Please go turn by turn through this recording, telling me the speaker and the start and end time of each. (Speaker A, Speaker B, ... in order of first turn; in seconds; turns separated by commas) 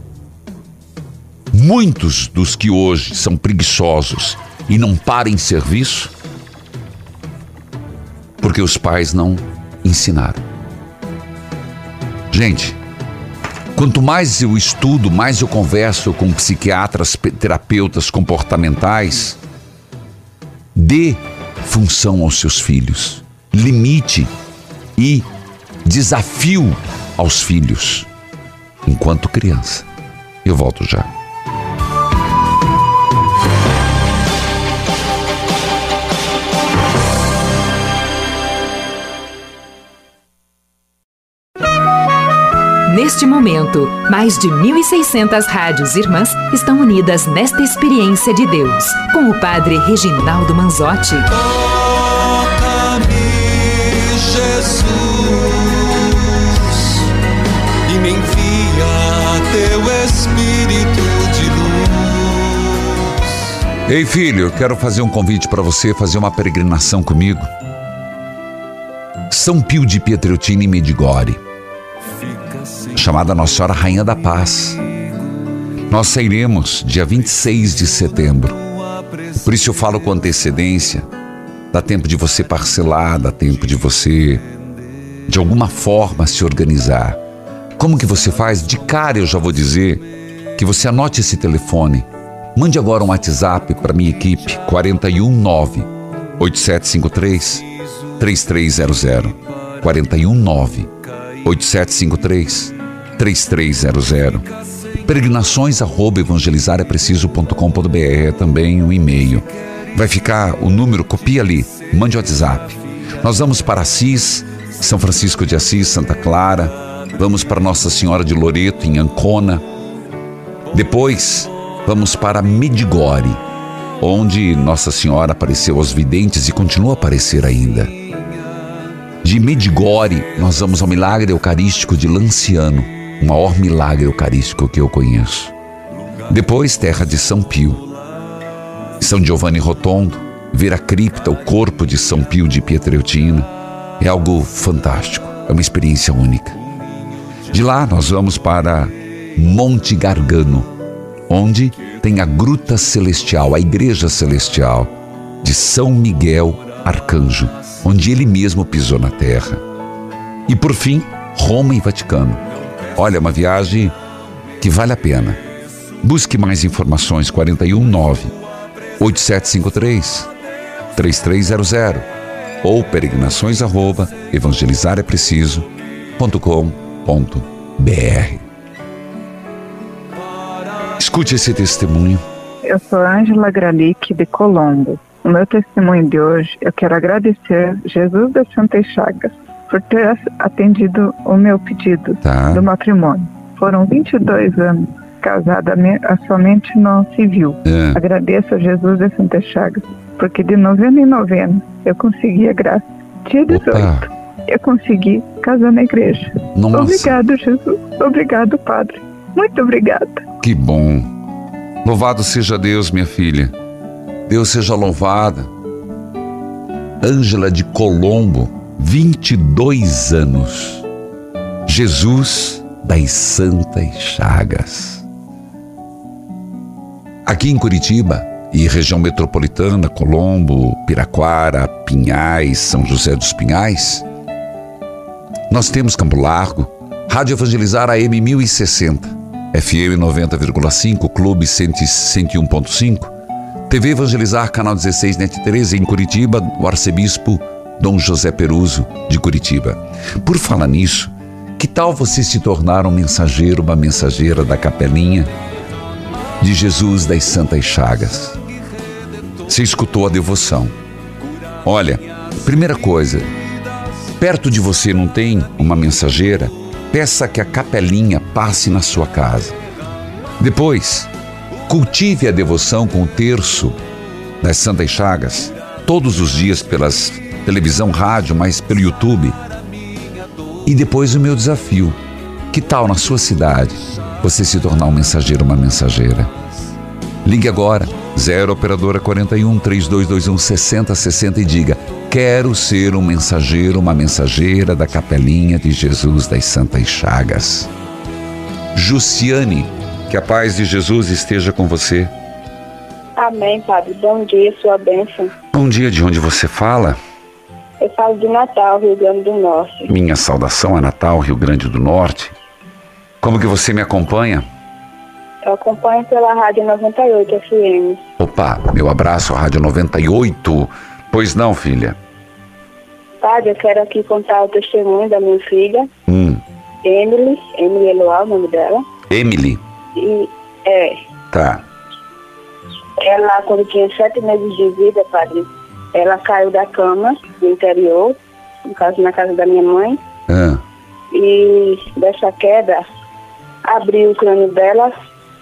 Speaker A: 1.5-6.1, Speaker A: 8.4-10.4, Speaker A: 12.3-12.8, Speaker A: 13.7-19.4, Speaker A: 20.7-24.3, Speaker A: 25.0-25.3, Speaker A: 25.8-28.1, Speaker A: 28.9-29.9, Speaker A: 30.4-31.1, Speaker B: 42.9-51.3, Speaker C: 51.4-57.0, Speaker C: 57.9-62.7, Speaker A: 63.9-67.5, Speaker A: 69.3-71.4, Speaker A: 72.9-74.8, Speaker A: 75.9-78.6, Speaker A: 79.4-81.1, Speaker A: 81.7-84.4, Speaker A: 85.3-87.2, Speaker A: 87.8-97.7, Speaker A: 98.2-100.9, Speaker A: 101.4-104.5, Speaker A: 105.0-119.6, Speaker A: 120.7-123.4, Speaker A: 124.0-127.9, Speaker A: 129.2-135.5, Speaker A: 136.3-137.8, Speaker A: 139.0-146.6, Speaker A: 147.5-150.7, Speaker A: 151.3-159.6, Speaker A: 160.5-162.4, Speaker A: 162.9-163.9, Speaker A: 164.6-165.4, Speaker A: 166.0-168.3, Speaker A: 169.0-170.3, Speaker A: 170.9-172.1, Speaker A: 172.6-178.4, Speaker A: 181.0-182.2, Speaker D: 182.6-210.2, Speaker A: 192.2-192.6, Speaker A: 197.7-198.0, Speaker A: 203.5-204.1, Speaker A: 206.5-207.2, Speaker A: 210.4-211.1, Speaker A: 211.8-213.5, Speaker A: 214.3-215.5, Speaker A: 217.0-220.8, Speaker A: 221.7-225.0, Speaker A: 227.2-234.1, Speaker A: 235.5-243.1, Speaker A: 243.7-255.3, Speaker A: 256.4-258.4, Speaker A: 259.5-260.8, Speaker A: 261.6-263.3, Speaker A: 264.2-269.6, Speaker A: 270.4-271.1, Speaker A: 271.7-273.8, Speaker A: 274.4-279.4, Speaker A: 280.6-282.0, Speaker A: 282.5-286.3, Speaker A: 287.2-297.7, Speaker A: 298.7-302.1, Speaker E: 303.2-305.3, Speaker A: 305.5-307.0, Speaker E: 307.8-309.9, Speaker A: 309.9-312.3, Speaker A: 313.2-314.4, Speaker E: 315.4-318.0, Speaker A: 318.2-322.0, Speaker E: 323.2-325.9, Speaker A: 326.1-326.4, Speaker E: 326.8-328.8, Speaker A: 329.1-329.6, Speaker E: 329.9-331.0, Speaker A: 331.3-331.6, Speaker E: 333.0-340.0, Speaker A: 340.3-340.6, Speaker E: 341.1-342.8, Speaker E: 343.6-344.9